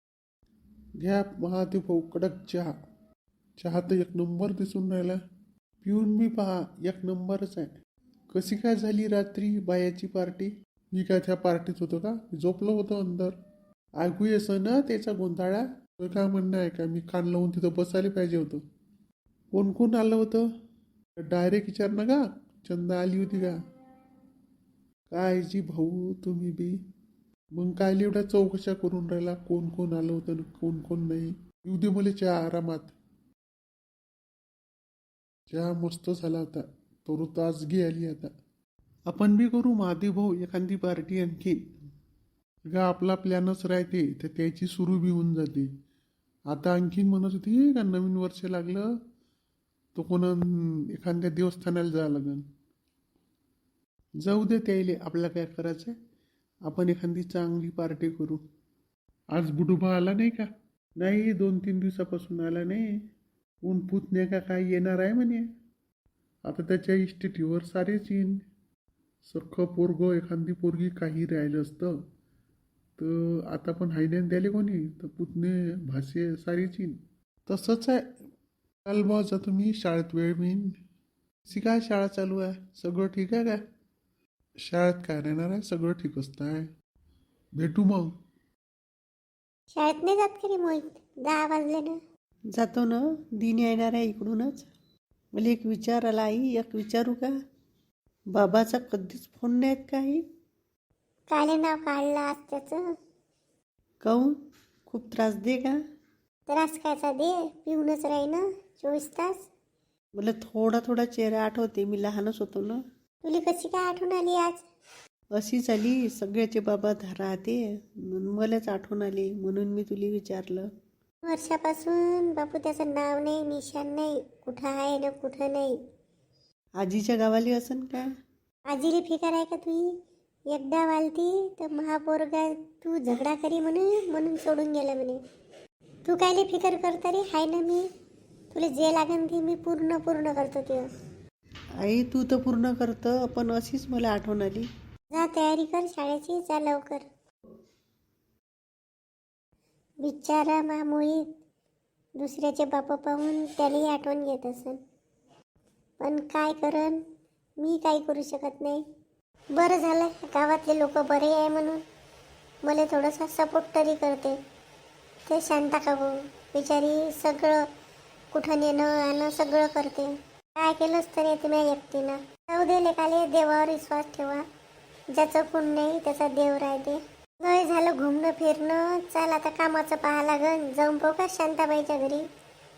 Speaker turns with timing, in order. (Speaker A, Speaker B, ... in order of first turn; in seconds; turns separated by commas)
Speaker A: 1.0-2.7, Speaker A: 3.6-5.2, Speaker A: 5.8-7.7, Speaker A: 8.3-13.3, Speaker A: 14.0-18.6, Speaker A: 19.5-20.5, Speaker A: 21.2-23.6, Speaker A: 25.1-26.8, Speaker A: 27.5-32.9, Speaker A: 35.5-38.3, Speaker A: 39.1-41.6, Speaker A: 42.7-45.7, Speaker A: 46.5-48.9, Speaker A: 49.9-52.4, Speaker A: 54.2-56.0, Speaker A: 56.6-58.4, Speaker A: 59.3-62.9, Speaker A: 63.6-65.5, Speaker A: 66.4-68.4, Speaker A: 69.2-72.0, Speaker A: 73.0-78.1, Speaker A: 78.8-80.7, Speaker A: 81.5-83.6, Speaker A: 84.7-86.7, Speaker A: 87.6-88.1, Speaker B: 89.7-92.0, Speaker C: 92.6-94.6, Speaker A: 92.6-94.5, Speaker C: 95.3-97.3, Speaker A: 95.5-96.1, Speaker C: 98.3-100.2, Speaker B: 101.3-102.8, Speaker C: 104.0-104.3, Speaker C: 104.9-105.8, Speaker B: 106.5-109.5, Speaker C: 110.2-112.8, Speaker A: 110.3-112.1, Speaker B: 113.2-114.6, Speaker C: 115.4-120.7, Speaker A: 115.9-116.9, Speaker B: 121.2-125.8, Speaker C: 126.8-128.0, Speaker A: 126.9-127.6, Speaker B: 128.7-129.8, Speaker B: 130.5-135.2, Speaker B: 136.0-137.9, Speaker B: 138.5-140.9, Speaker A: 141.8-144.6, Speaker C: 141.9-144.7, Speaker B: 145.1-147.1, Speaker B: 150.0-151.2, Speaker B: 152.2-154.8, Speaker B: 156.0-157.0, Speaker B: 157.6-158.8, Speaker B: 159.5-161.8, Speaker B: 162.6-164.4, Speaker B: 165.3-167.7, Speaker B: 168.3-174.4, Speaker B: 175.1-182.2